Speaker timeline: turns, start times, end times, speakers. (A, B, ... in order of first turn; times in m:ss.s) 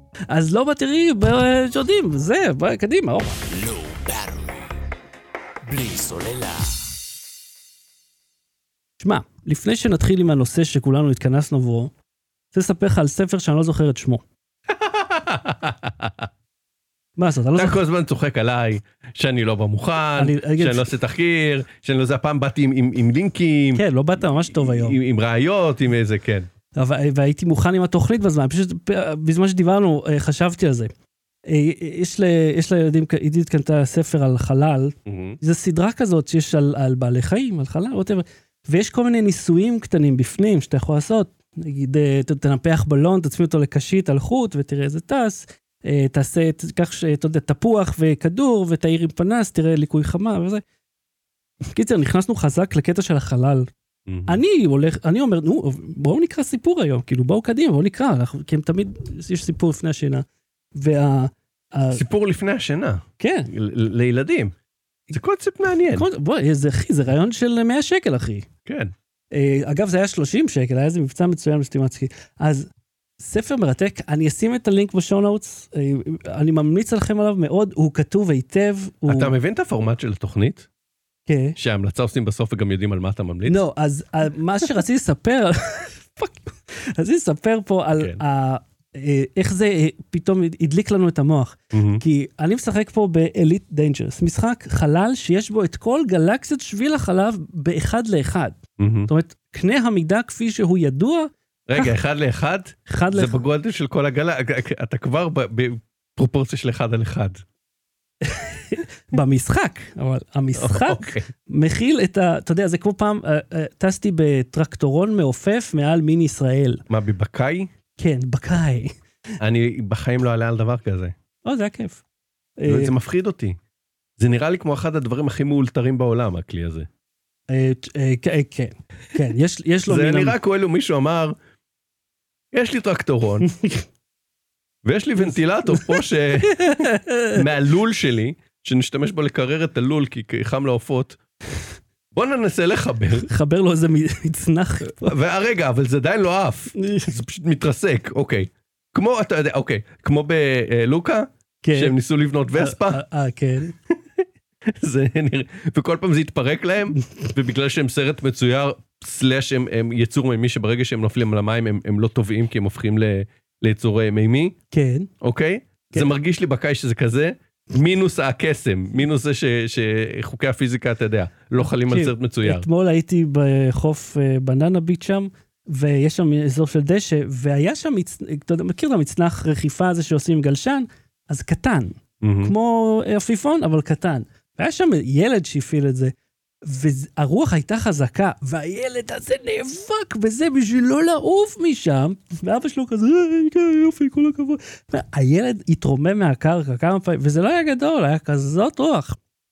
0:00.3-0:03.4 A
0:03.4-0:04.8 B
0:05.6-0:06.9 B
0:09.0-0:11.9 A
0:12.5-0:14.2 A
0:14.7-0:16.3 C
0:17.2-0:17.8 A
0:17.6-0:23.8 C
0:20.2-0:20.9 A
0:23.8-0:25.0 A
0:24.5-0:26.5 C
0:26.8-0:30.9 A
0:31.5-0:50.6 A
0:35.0-0:35.4 C
0:51.7-0:53.7 A
0:54.1-0:54.4 C
0:54.3-1:02.0 A
1:01.9-1:04.5 C
1:03.2-1:03.5 A
1:05.1-1:06.1 C
1:05.9-1:08.5 A
1:08.6-1:08.9 C
1:09.3-1:19.3 A
1:19.1-1:20.7 C
1:21.3-1:21.6 A
1:21.6-1:23.6 C
1:23.5-1:42.0 A
1:31.7-1:32.0 C
1:38.8-1:39.1 C
1:41.7-1:47.4 C
1:42.9-1:43.4 A
1:48.2-1:56.8 A
1:50.6-1:51.3 C
1:56.9-1:57.7 C
1:58.0-1:58.9 A
1:59.4-2:01.1 C
2:01.4-2:02.0 A
2:02.6-2:02.9 A
2:02.7-2:03.6 C
2:04.2-2:06.9 C
2:07.5-2:10.4 A
2:09.8-2:11.4 C
2:12.5-2:13.5 C
2:13.4-2:13.8 A
2:14.8-2:21.2 C
2:15.2-2:17.4 A
2:22.1-2:23.3 C
2:23.2-2:25.1 A
2:24.9-2:33.0 C
2:26.8-2:27.2 A
2:31.6-2:32.0 A
2:32.5-2:33.7 A
2:34.7-2:44.6 C
2:44.7-2:45.1 A
2:45.2-2:52.7 C
2:51.6-3:06.1 A
3:02.2-3:02.5 C
3:06.7-3:19.2 A